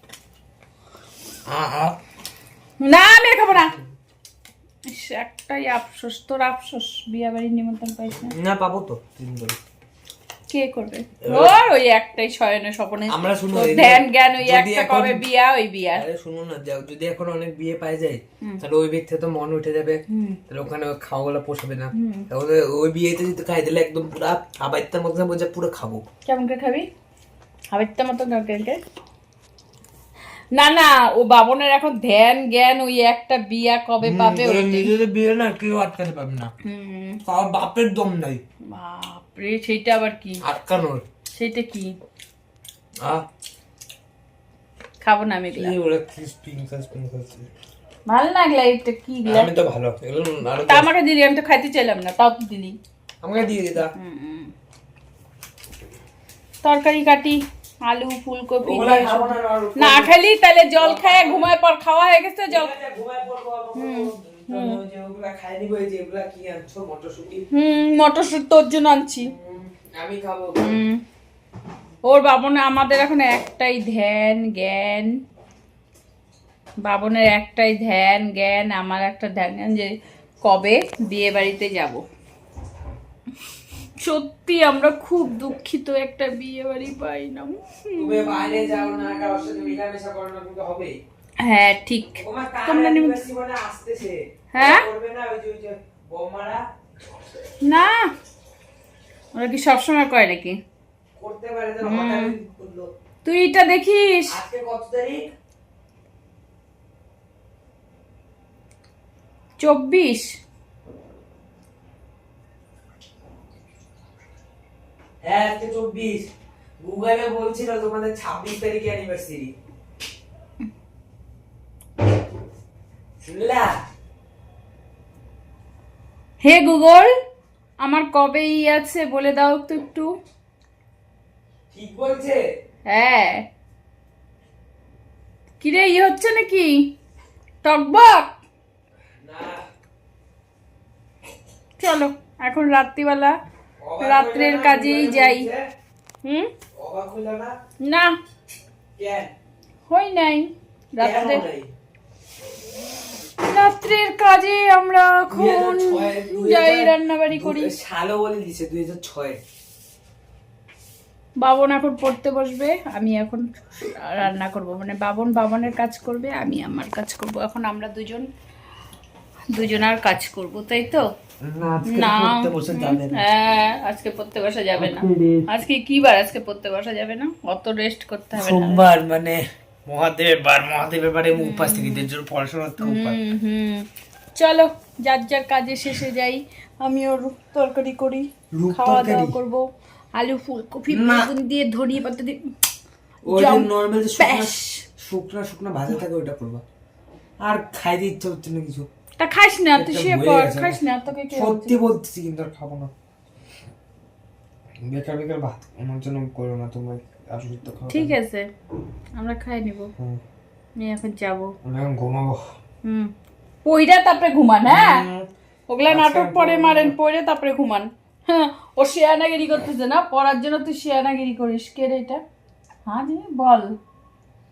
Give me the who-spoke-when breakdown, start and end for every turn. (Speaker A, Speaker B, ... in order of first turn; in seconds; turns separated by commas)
Speaker A: 1.5-2.0, Speaker B: 2.8-3.8, Speaker B: 4.9-8.3, Speaker A: 8.1-9.6, Speaker B: 10.5-16.1, Speaker A: 11.2-11.6, Speaker A: 13.1-15.3, Speaker A: 15.9-26.0, Speaker B: 20.1-20.4, Speaker B: 21.9-22.3, Speaker B: 26.3-26.9, Speaker B: 27.7-28.8, Speaker B: 30.5-34.9, Speaker A: 34.0-36.5, Speaker B: 36.6-37.2, Speaker A: 37.3-38.4, Speaker B: 38.7-40.4, Speaker A: 40.4-41.0, Speaker B: 41.4-42.0, Speaker B: 45.0-45.8, Speaker A: 45.5-47.5, Speaker B: 48.1-49.5, Speaker A: 49.3-50.9, Speaker B: 50.6-52.8, Speaker A: 53.2-53.9, Speaker B: 54.0-54.5, Speaker B: 56.6-62.7, Speaker A: 58.6-60.1, Speaker A: 60.8-61.5, Speaker A: 62.5-67.5, Speaker B: 63.8-64.8, Speaker B: 67.5-69.3, Speaker A: 69.2-70.8, Speaker B: 70.6-71.0, Speaker B: 72.1-75.2, Speaker B: 76.8-82.0, Speaker B: 84.0-88.5, Speaker A: 88.0-91.0, Speaker B: 91.4-93.2, Speaker A: 92.2-96.6, Speaker B: 94.5-94.9, Speaker B: 97.6-98.1, Speaker B: 99.3-100.6, Speaker A: 101.2-102.9, Speaker B: 101.8-102.3, Speaker B: 103.2-104.4, Speaker A: 104.3-105.3, Speaker B: 109.6-110.3, Speaker A: 115.2-116.2, Speaker A: 116.8-119.5, Speaker A: 123.2-123.8, Speaker B: 126.4-127.1, Speaker B: 127.8-130.1, Speaker A: 131.7-132.4, Speaker B: 132.9-133.4, Speaker B: 135.6-136.9, Speaker B: 137.6-138.3, Speaker A: 139.2-139.7, Speaker B: 141.8-143.4, Speaker A: 143.8-145.6, Speaker B: 144.0-145.5, Speaker B: 146.2-146.5, Speaker A: 146.8-147.6, Speaker B: 147.8-148.1, Speaker A: 149.0-149.3, Speaker B: 149.9-151.5, Speaker A: 151.0-151.7, Speaker B: 153.4-157.7, Speaker A: 155.3-159.4, Speaker B: 161.4-168.3, Speaker B: 169.5-171.1, Speaker A: 171.4-173.2, Speaker B: 171.9-178.8, Speaker A: 174.8-175.5, Speaker A: 178.3-183.2, Speaker B: 181.4-182.1, Speaker B: 182.8-192.4, Speaker A: 188.5-189.4, Speaker A: 190.9-191.3, Speaker A: 193.3-196.6, Speaker B: 193.3-194.8, Speaker A: 197.4-198.9, Speaker B: 199.2-201.8, Speaker A: 199.8-202.9, Speaker A: 204.8-208.2, Speaker B: 207.9-208.5, Speaker B: 209.2-209.9, Speaker A: 210.0-210.2, Speaker B: 210.8-211.5, Speaker A: 211.6-212.4, Speaker B: 212.8-213.1, Speaker B: 213.7-215.0, Speaker A: 214.7-215.3, Speaker B: 215.7-222.2, Speaker A: 215.9-217.0, Speaker B: 222.9-223.7